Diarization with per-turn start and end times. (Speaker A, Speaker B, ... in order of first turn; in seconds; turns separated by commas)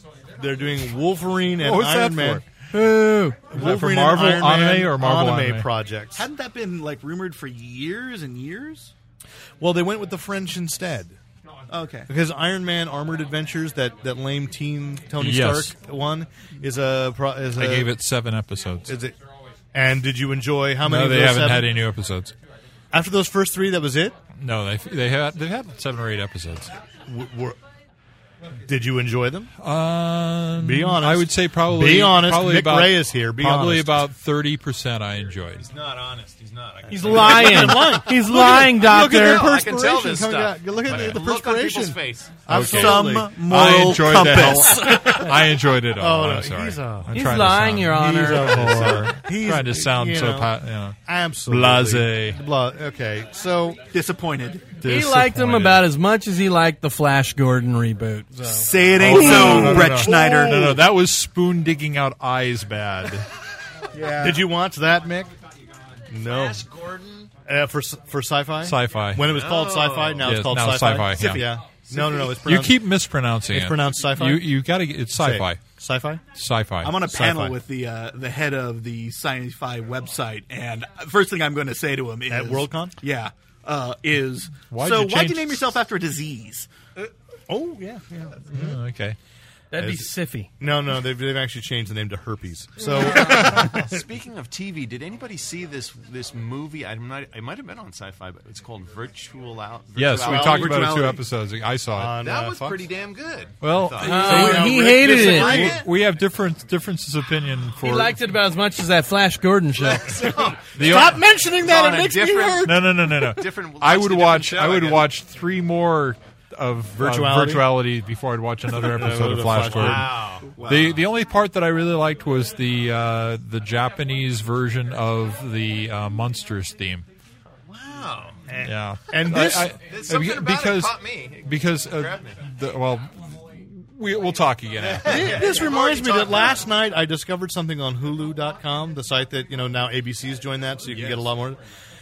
Speaker A: 0.4-2.5, Speaker B: 1.6-2.5, Speaker C: 2.7-3.5, Speaker A: 3.5-6.3, Speaker B: 3.5-5.7, Speaker D: 6.2-8.9, Speaker A: 9.6-11.2, Speaker D: 11.7-12.1, Speaker A: 12.1-18.0, Speaker B: 15.2-15.7, Speaker B: 17.6-19.0, Speaker A: 18.9-19.2, Speaker A: 19.7-21.7, Speaker B: 20.8-22.3, Speaker A: 22.9-24.2, Speaker B: 24.4-26.7, Speaker A: 27.1-27.6, Speaker A: 28.6-29.5, Speaker B: 29.6-35.7, Speaker A: 30.6-34.0, Speaker E: 35.6-42.4, Speaker C: 36.9-39.5, Speaker A: 37.1-43.4, Speaker B: 40.9-41.2, Speaker B: 42.5-52.4, Speaker D: 42.6-44.9, Speaker C: 44.7-45.2, Speaker A: 44.9-45.4, Speaker A: 46.0-47.2, Speaker C: 47.1-48.6, Speaker A: 47.9-50.5, Speaker A: 51.1-53.9, Speaker D: 53.9-54.8, Speaker B: 54.8-55.8, Speaker C: 54.8-59.7, Speaker D: 58.5-60.8, Speaker A: 59.0-60.4, Speaker B: 59.0-63.3, Speaker D: 63.9-64.5, Speaker A: 64.2-65.3, Speaker A: 66.1-66.7, Speaker E: 66.2-67.3, Speaker A: 67.5-72.9, Speaker B: 68.6-69.3, Speaker E: 69.2-70.3, Speaker B: 70.2-71.5, Speaker D: 71.9-72.3, Speaker B: 72.3-75.6, Speaker A: 73.5-74.6, Speaker A: 75.2-76.2, Speaker B: 76.3-77.1, Speaker D: 76.8-86.7, Speaker A: 77.1-77.5, Speaker A: 82.3-83.0, Speaker B: 84.7-85.6, Speaker A: 87.5-88.8, Speaker B: 88.5-89.2, Speaker C: 89.7-90.5, Speaker A: 89.8-93.9, Speaker E: 93.0-101.2, Speaker B: 93.2-93.7, Speaker B: 100.0-102.2, Speaker A: 100.2-101.2, Speaker A: 102.0-102.9, Speaker E: 102.2-104.6, Speaker B: 103.6-104.8, Speaker C: 104.0-105.7, Speaker A: 104.0-105.8, Speaker D: 105.1-105.8, Speaker E: 105.2-105.8, Speaker B: 105.3-108.2, Speaker C: 107.8-110.3, Speaker E: 109.8-111.0, Speaker A: 110.7-112.9, Speaker B: 110.8-111.2, Speaker E: 111.6-115.1, Speaker B: 112.6-127.0, Speaker A: 117.0-117.7, Speaker A: 118.7-120.2, Speaker E: 119.7-120.5, Speaker D: 120.4-121.1, Speaker E: 127.7-128.4, Speaker A: 128.5-129.8, Speaker B: 128.6-135.6, Speaker E: 129.3-132.4, Speaker E: 134.8-136.7, Speaker A: 135.0-141.6